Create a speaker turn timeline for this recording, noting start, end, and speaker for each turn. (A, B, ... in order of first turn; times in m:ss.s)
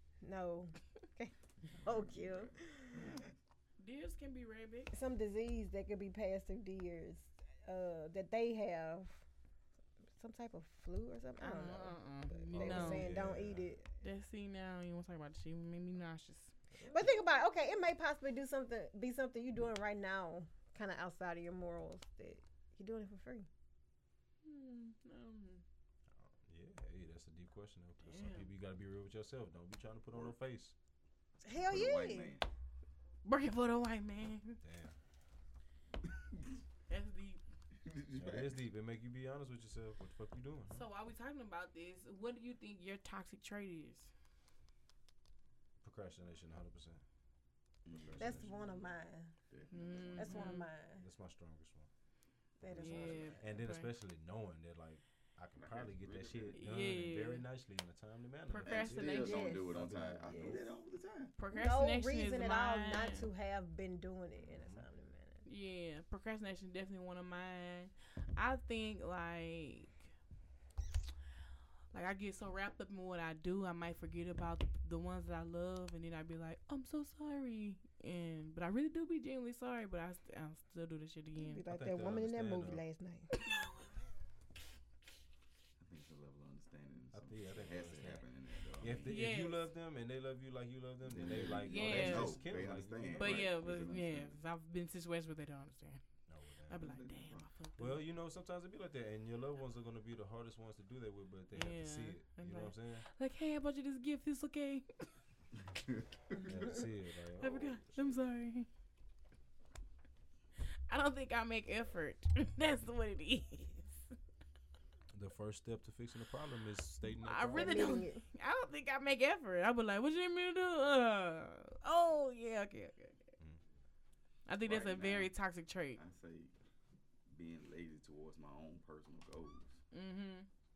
0:00.2-0:03.1 A
0:01.8-0:03.3 B
0:03.8-0:04.9 C
0:04.9-0:09.2 A
0:10.2-0:13.8 A
0:11.4-0:13.1 C
0:12.5-0:13.7 D
0:14.0-0:16.5 C
0:16.7-0:17.1 D
0:16.9-0:23.5 A
0:24.4-0:25.6 C
0:26.2-0:30.8 D
0:28.0-0:28.5 C
0:31.4-0:32.3 A
0:31.5-0:32.4 B
0:33.2-0:34.6 C
0:34.6-0:35.0 D
0:36.1-0:36.6 B
0:36.9-0:37.4 C
0:37.8-0:38.6 B
0:38.2-0:40.8 D
0:40.7-0:44.1 C
0:45.8-0:47.0 D
0:47.8-0:48.7 B
0:48.0-0:48.8 D
0:48.2-0:49.3 A
0:49.5-0:50.5 B
0:49.7-0:50.7 C
0:50.2-0:51.0 A
0:51.0-0:51.9 D
0:52.6-0:53.4 A
0:52.6-0:53.3 B
0:52.8-1:00.7 D
0:52.8-0:53.9 C
0:55.6-0:56.6 B
0:56.5-0:57.4 C
0:58.5-0:59.6 C
0:58.6-1:01.3 B
0:59.2-0:59.7 A
1:00.3-1:00.6 A
1:01.4-1:03.3 C
1:01.5-1:05.4 A
1:04.4-1:04.9 D
1:05.5-1:10.1 C
1:11.9-1:21.6 C
1:21.4-1:23.3 A
1:21.7-1:22.8 D
1:23.4-1:23.8 C
1:25.8-1:29.2 B
1:27.1-1:28.2 D
1:28.8-1:33.5 D
1:29.0-1:29.7 C
1:31.0-1:34.4 B
1:31.6-1:32.4 C
1:33.2-1:36.0 C
1:36.3-1:36.8 D
1:36.7-1:38.0 C
1:36.8-1:37.5 B
1:37.8-1:43.0 D
1:41.5-1:44.9 C
1:45.6-1:46.4 B
1:46.4-1:48.2 D
1:47.4-1:48.7 C
1:50.9-1:54.1 C
1:55.1-1:58.0 D
1:57.1-2:03.2 C
1:57.6-1:58.2 A
2:04.5-2:06.0 C
2:04.6-2:05.3 B
2:06.0-2:06.5 B
2:07.3-2:09.8 B
2:09.9-2:10.5 C